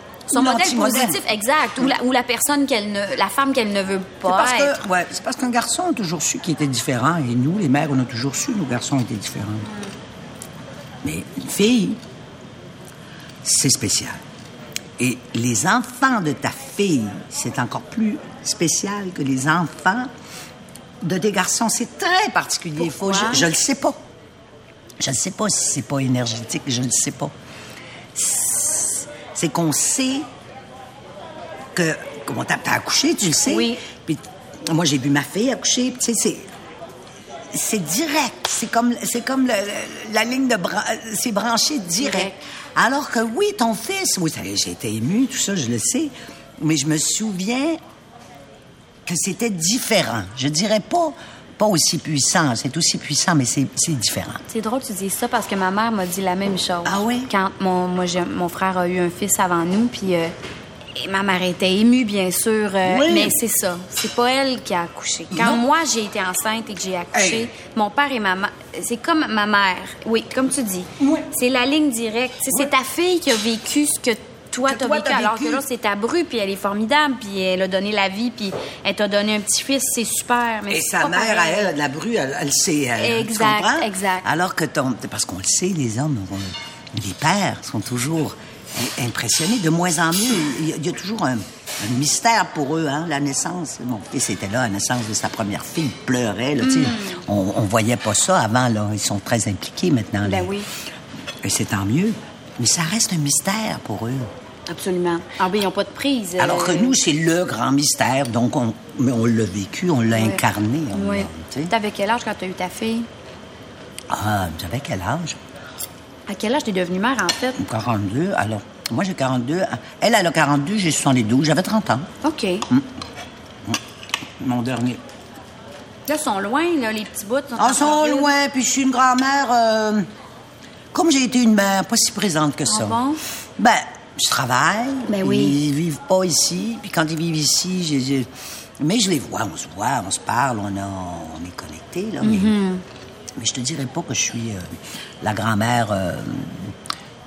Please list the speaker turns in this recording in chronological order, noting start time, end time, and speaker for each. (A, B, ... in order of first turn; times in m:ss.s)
0:00.3-0:04.8 A
0:00.3-0:01.2 B
0:04.2-0:09.7 B
0:11.0-0:12.0 B
0:13.4-0:14.2 B
0:15.0-0:20.1 B
0:21.0-0:24.0 B
0:22.8-0:23.5 A
0:25.0-0:27.3 B
0:28.1-0:30.3 B
0:31.7-0:36.5 B
0:33.4-0:33.8 A
0:37.5-0:47.8 B
0:42.0-0:42.4 A
0:49.0-0:54.4 B
0:54.5-1:00.3 A
0:56.8-0:57.3 B
1:00.9-1:21.7 A
1:02.8-1:03.4 B
1:05.3-1:05.6 B
1:07.1-1:07.5 B
1:11.0-1:11.3 B
1:14.7-1:15.6 B
1:20.7-1:40.5 B
1:23.0-1:24.2 A
1:36.6-1:37.2 A
1:40.2-1:40.7 A
1:41.4-1:44.3 B
1:44.7-1:47.0 A
1:46.4-1:51.7 B
1:50.1-1:50.4 A
1:50.9-1:53.1 A
1:54.1-1:55.4 B
1:56.3-1:57.6 A
1:57.6-2:02.1 B
2:02.2-2:02.6 A
2:04.4-2:05.0 B
2:06.1-2:08.3 A
2:07.6-2:10.1 B
2:10.9-2:13.0 B
2:12.7-2:13.2 A
2:13.6-2:18.3 B
2:15.1-2:15.6 A
2:18.8-2:22.6 B
2:22.2-2:22.8 A
2:23.4-2:26.7 B